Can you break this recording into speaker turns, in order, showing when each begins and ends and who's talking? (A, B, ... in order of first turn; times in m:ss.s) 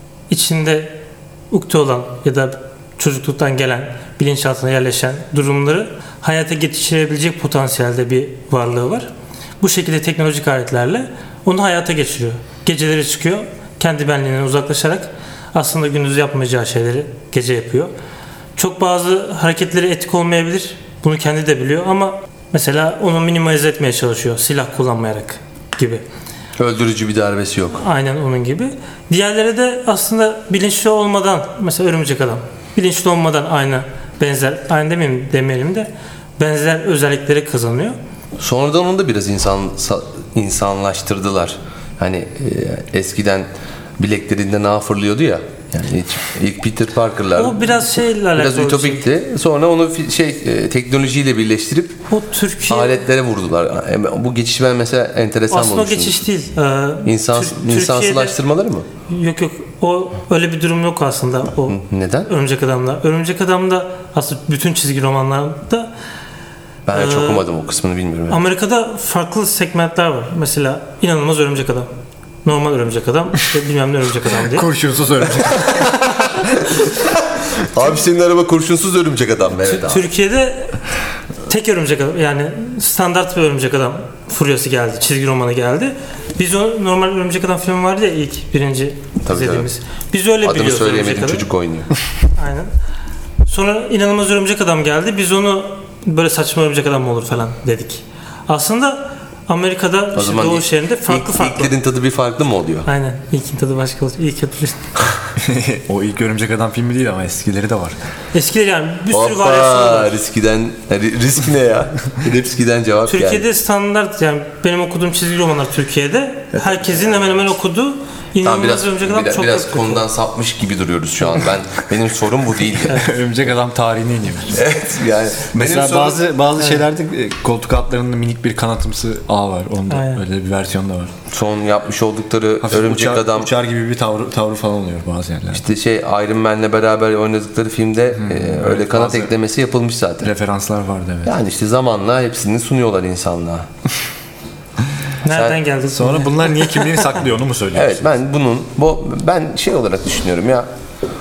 0:00.3-0:01.0 A
0:01.5-0:09.1 A
0:09.6-0:17.9 A
0:18.6-0:26.0 A
0:26.6-0:27.8 B
0:27.8-0:38.0 A
0:38.4-0:43.5 B
0:44.0-0:47.8 B
0:47.4-0:49.1 A
0:48.3-0:52.0 B
0:52.1-0:53.0 A
0:52.7-0:56.2 B
0:55.5-0:58.4 A
0:57.0-0:58.9 B
0:59.1-1:05.9 A
1:01.7-1:02.3 B
1:06.9-1:08.4 B
1:06.9-1:07.5 A
1:08.3-1:11.9 A
1:12.4-1:14.7 A
1:14.5-1:15.9 C
1:17.1-1:20.1 B
1:19.6-1:20.8 A
1:21.5-1:31.5 A
1:29.2-1:29.7 B
1:30.4-1:31.9 B
1:32.4-1:32.7 A
1:33.5-1:41.7 A
1:40.1-1:42.9 B
1:42.8-1:44.9 A
1:45.4-1:48.0 C
1:48.3-1:50.2 A
1:49.1-1:53.4 B
1:53.1-2:00.1 A
1:58.4-2:03.1 B
2:02.9-2:04.6 C
2:04.5-2:06.2 B
2:05.5-2:11.1 C
2:06.6-2:06.8 A
2:09.9-2:10.2 A
2:11.3-2:13.5 B
2:12.6-2:15.6 C
2:15.5-2:20.3 B
2:18.2-2:19.3 C
2:20.2-2:21.3 C
2:21.2-2:23.7 B
2:25.2-2:27.1 A
2:25.3-2:25.6 B
2:25.9-2:28.0 C
2:27.7-2:30.7 B